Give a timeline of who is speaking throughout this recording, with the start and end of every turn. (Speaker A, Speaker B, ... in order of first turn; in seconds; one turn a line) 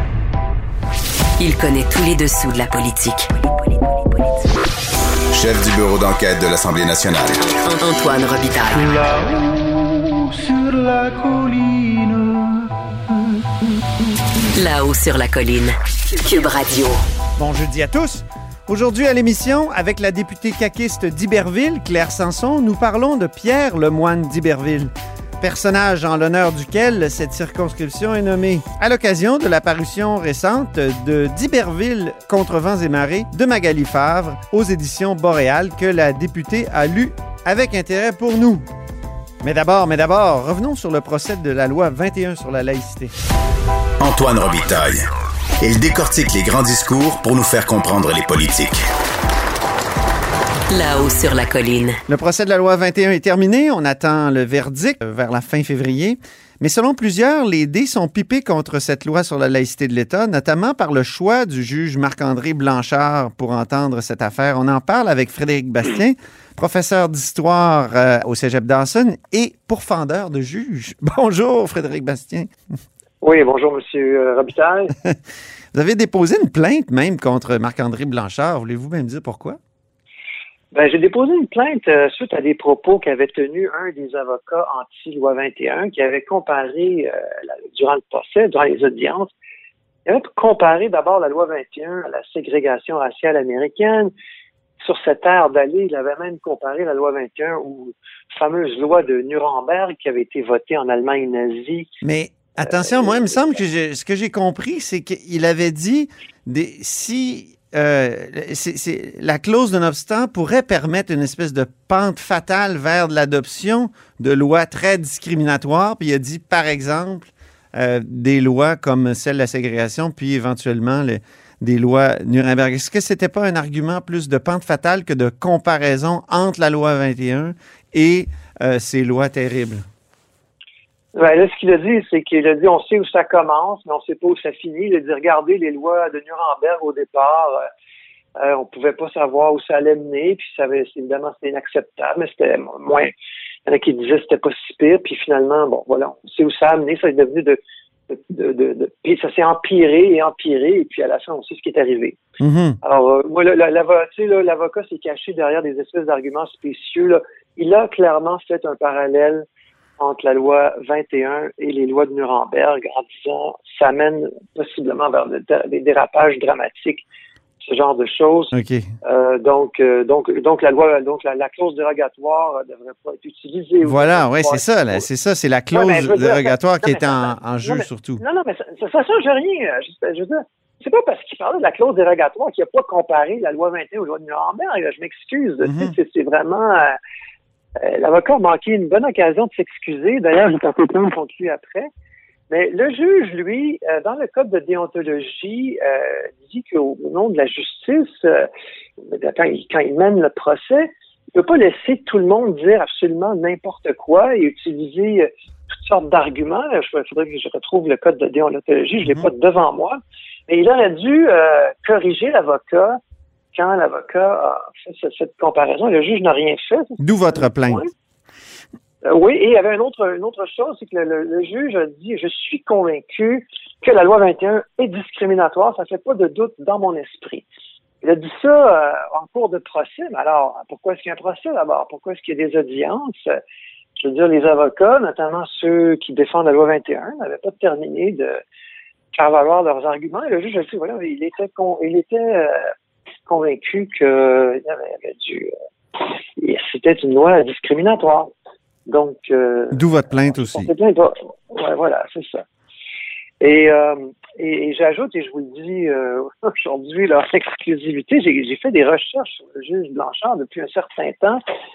Speaker A: 1.4-4.4
Speaker B: 5.3-7.4
Speaker A: 7.7-9.0
Speaker C: 8.7-12.7
Speaker A: 14.6-17.0
Speaker D: 17.4-38.6
Speaker D: 39.4-43.1
Speaker B: 44.0-45.1
Speaker B: 45.6-48.9
Speaker A: 50.7-52.0
Speaker D: 52.1-72.5
Speaker E: 73.2-74.9
Speaker D: 75.7-79.6
Speaker E: 80.7-89.3
Speaker E: 90.1-94.1
Speaker E: 94.8-101.9
Speaker D: 102.0-129.8
Speaker E: 131.1-137.7
Speaker E: 138.4-143.1
Speaker E: 143.7-152.2
Speaker D: 152.4-152.8
Speaker E: 152.8-159.4
Speaker E: 160.0-167.1
Speaker E: 167.6-168.5
Speaker D: 168.5-168.9
Speaker E: 169.0-175.0
Speaker D: 173.8-178.2
Speaker E: 175.7-187.0
Speaker D: 185.6-185.9
Speaker E: 187.8-191.9
Speaker E: 192.5-198.5
Speaker E: 199.0-213.0
Speaker E: 213.5-217.9
Speaker D: 217.0-217.8
Speaker E: 219.0-227.5
Speaker E: 228.0-233.4
Speaker E: 234.0-238.4
Speaker E: 239.1-242.7
Speaker E: 243.3-248.3
Speaker E: 248.9-252.4
Speaker D: 249.7-250.7
Speaker E: 253.4-261.4